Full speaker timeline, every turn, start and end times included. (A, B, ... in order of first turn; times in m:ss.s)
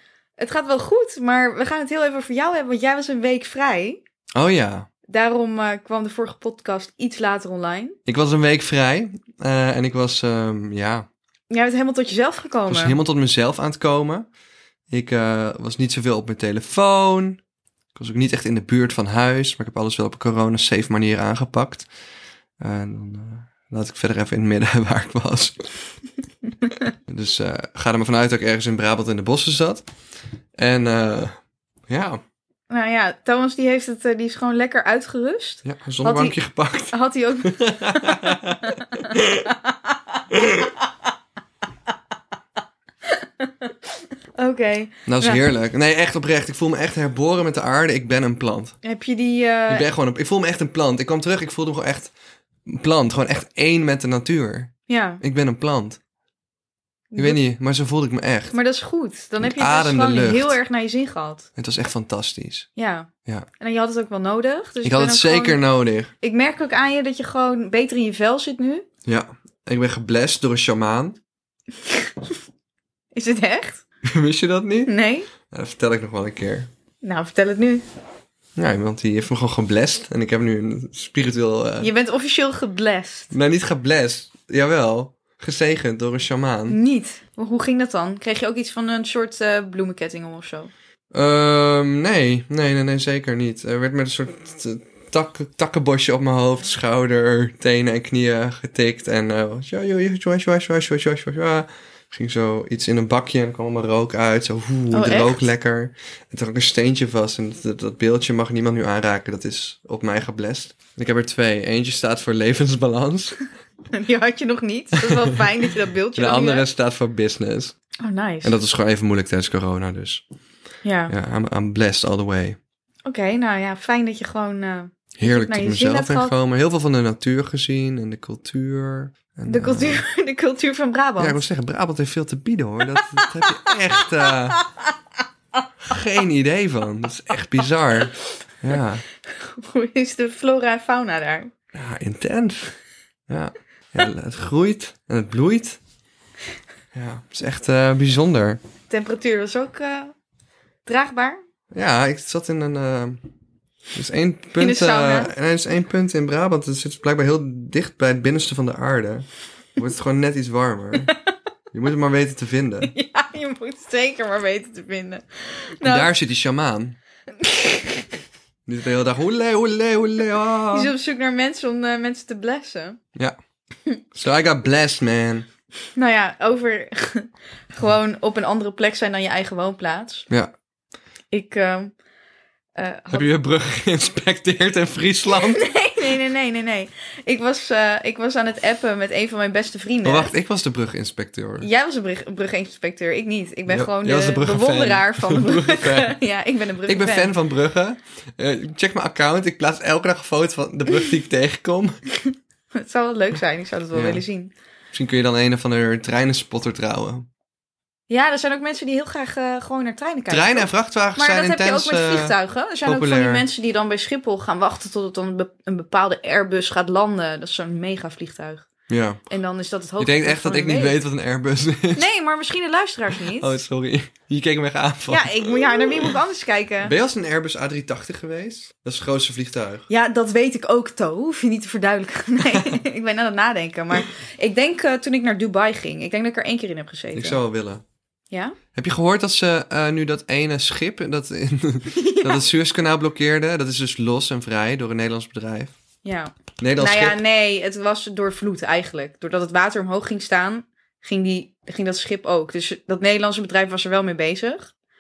0:00.4-0:04.0 A
0:04.4-0:04.9 B
0:05.1-0:08.0 A
0:08.1-0:11.1 B
0:11.5-0:13.0 A
0:12.7-0:14.3 B
0:14.9-0:17.4 B
0:18.0-0:21.9 B
0:22.6-0:25.7 B
0:27.1-0:29.8 B
0:30.6-0:32.2 B
0:32.7-0:36.4 A
0:35.6-0:39.5 B
0:36.9-0:40.9 A
0:40.3-0:40.6 B
0:43.0-0:45.4 A
0:45.1-0:48.8 B
0:48.8-0:49.9 A
0:49.7-0:52.1 B
0:52.7-0:56.0 B
0:54.9-0:55.2 A
0:57.1-0:57.4 A
0:57.2-0:58.6 B
0:58.5-1:01.5 A
0:59.4-1:00.6 B
1:01.6-1:02.7 B
1:02.8-1:05.6 A
1:04.8-1:06.1 B
1:06.2-1:08.9 A
1:09.1-1:11.2 B
1:11.8-1:12.3 A
1:13.1-1:13.8 A
1:14.1-1:14.9 B
1:14.9-1:15.3 A
1:15.5-1:16.7 B
1:17.0-1:17.8 A
1:18.6-1:21.9 B
1:21.8-1:23.3 A
1:23.3-1:26.8 B
1:26.7-1:30.7 A
1:31.1-1:53.4 B
1:44.9-1:45.5 A
1:53.9-1:56.6 A
1:55.0-1:55.4 B
1:56.2-1:57.8 B
1:58.0-1:58.6 A
1:58.4-2:00.2 B
2:00.8-2:01.1 A
2:01.1-2:02.6 B
2:03.1-2:06.3 A
2:05.2-2:10.0 B
2:09.5-2:11.4 A
2:11.2-2:14.6 B
2:14.2-2:14.9 A
2:15.8-2:19.0 B
2:19.3-2:21.5 A
2:21.7-2:22.8 B
2:23.3-2:25.8 B
2:26.9-2:28.6 B
2:28.9-2:30.2 A
2:30.9-2:31.4 A
2:31.7-2:33.2 B
2:33.9-2:41.2 B
2:34.6-2:35.3 A
2:41.7-2:42.9 B
2:42.9-2:46.1 A
2:45.8-2:47.0 B
2:47.4-2:48.1 A
2:48.7-2:50.9 B
2:50.7-2:53.0 A
2:54.1-2:55.5 B
2:56.0-3:00.3 A
3:01.3-3:01.9 A
3:02.8-3:03.3 A
3:03.1-3:05.6 B
3:05.3-3:10.3 A
3:10.0-3:11.7 B
3:11.6-3:17.3 A
3:13.7-3:16.2 B
3:16.9-3:22.0 B
3:22.2-3:24.5 A
3:23.9-3:24.2 B
3:24.9-3:27.3 B
3:28.1-3:38.7 A
3:30.3-3:32.3 B
3:32.8-3:33.5 B
3:38.9-3:39.2 B
3:39.3-3:41.0 A
3:40.0-3:42.0 B
3:42.0-3:43.5 A
3:43.3-3:46.1 B
3:45.1-3:46.9 A
3:46.8-3:49.9 B
3:49.9-3:57.4 A
3:57.1-3:57.8 B
3:58.3-3:58.6 A
3:58.7-4:05.7 B
4:01.9-4:02.5 A
4:06.0-4:14.7 A
4:06.6-4:07.2 B